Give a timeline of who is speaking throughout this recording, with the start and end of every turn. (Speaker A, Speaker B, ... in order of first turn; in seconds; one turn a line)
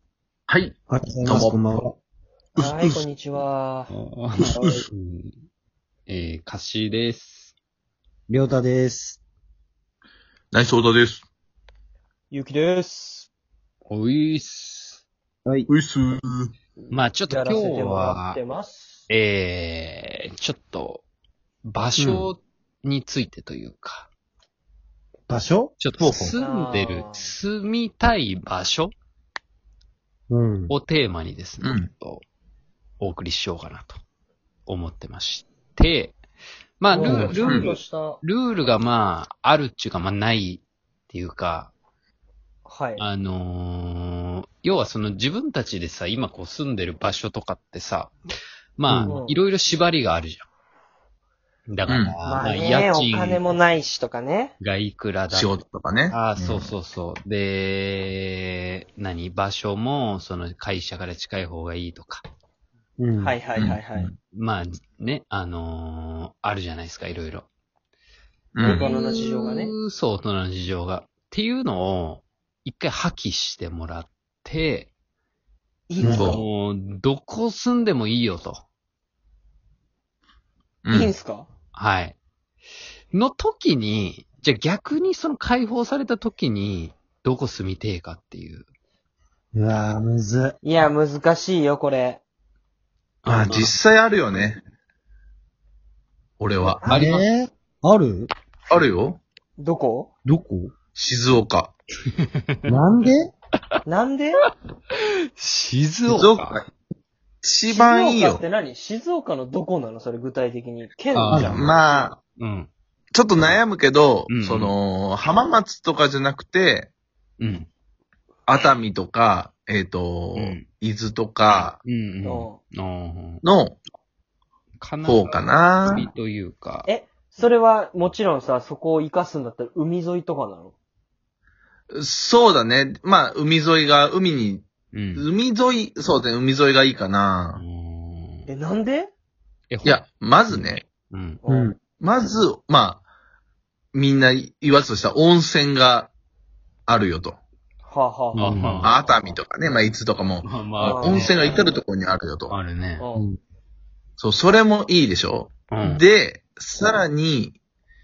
Speaker A: 0.5-1.9
Speaker B: 0.9-1.9
Speaker A: 2.6-3.0
Speaker C: 2.6-3.9
Speaker D: 3.9-5.4
Speaker B: 4.4-4.9
Speaker A: 4.6-4.8
Speaker D: 6.1-7.5
Speaker B: 8.3-9.2
Speaker A: 10.5-11.2
Speaker C: 12.3-13.3
Speaker D: 13.9-15.0
Speaker A: 15.7-16.5
Speaker C: 16.9-19.1
Speaker D: 16.9-18.4
Speaker D: 19.1-21.0
Speaker D: 21.6-24.1
Speaker B: 22.0-22.3
Speaker B: 25.3-25.8
Speaker D: 25.8-28.9
Speaker A: 26.0-26.4
Speaker C: 26.4-27.3
Speaker B: 30.3-30.8
Speaker D: 30.7-32.2
Speaker A: 31.6-31.9
Speaker D: 33.0-34.0
Speaker D: 34.7-36.2
Speaker D: 36.8-41.7
Speaker C: 36.9-38.2
Speaker B: 37.0-37.4
Speaker A: 37.4-37.8
Speaker C: 42.7-43.0
Speaker D: 43.0-48.1
Speaker D: 48.8-50.5
Speaker B: 48.9-49.2
Speaker C: 49.1-49.4
Speaker D: 51.7-53.5
Speaker A: 51.9-52.2
Speaker C: 52.3-54.5
Speaker D: 54.6-55.5
Speaker A: 55.3-56.7
Speaker D: 56.1-62.2
Speaker B: 63.0-63.4
Speaker C: 63.2-64.1
Speaker A: 63.6-64.2
Speaker D: 64.3-67.5
Speaker A: 68.5-68.9
Speaker C: 68.6-69.7
Speaker D: 68.6-74.9
Speaker C: 75.9-76.4
Speaker B: 76.0-76.4
Speaker D: 76.1-78.6
Speaker A: 80.8-81.1
Speaker C: 80.9-81.5
Speaker D: 81.7-82.2
Speaker D: 83.1-88.7
Speaker B: 89.5-90.6
Speaker C: 90.6-92.2
Speaker D: 93.2-93.7
Speaker B: 93.3-93.7
Speaker A: 93.5-94.6
Speaker A: 96.4-96.8
Speaker C: 96.7-97.1
Speaker D: 96.9-97.3
Speaker B: 96.9-98.3
Speaker A: 98.7-99.2
Speaker C: 99.6-100.1
Speaker B: 100.3-100.7
Speaker A: 101.0-101.7
Speaker B: 102.7-103.3
Speaker C: 103.9-104.4
Speaker D: 105.4-106.6
Speaker A: 106.1-106.7
Speaker A: 107.4-108.4
Speaker C: 107.7-111.5
Speaker D: 111.1-111.7
Speaker B: 111.3-111.7
Speaker A: 111.3-112.2
Speaker D: 112.4-112.7
Speaker A: 113.1-116.9
Speaker D: 114.3-114.7
Speaker D: 117.4-117.7
Speaker A: 118.5-121.8
Speaker D: 120.4-120.7
Speaker D: 121.5-123.4
Speaker C: 122.2-122.6
Speaker A: 123.4-123.8
Speaker D: 124.8-126.9
Speaker A: 125.0-126.1
Speaker C: 126.9-130.8
Speaker A: 131.9-137.6
Speaker D: 134.9-135.3
Speaker D: 137.6-138.5
Speaker C: 138.5-139.1
Speaker D: 139.7-141.4
Speaker A: 139.8-140.8
Speaker C: 141.4-141.8
Speaker B: 141.5-141.8
Speaker A: 141.8-143.0
Speaker A: 143.9-146.1
Speaker A: 146.9-147.4
Speaker C: 147.9-148.8
Speaker D: 148.3-149.1
Speaker B: 148.4-148.8
Speaker A: 148.8-152.6
Speaker D: 150.4-151.5
Speaker C: 150.8-151.3
Speaker D: 152.5-153.1
Speaker C: 153.0-153.3
Speaker A: 154.2-157.6
Speaker D: 155.7-156.0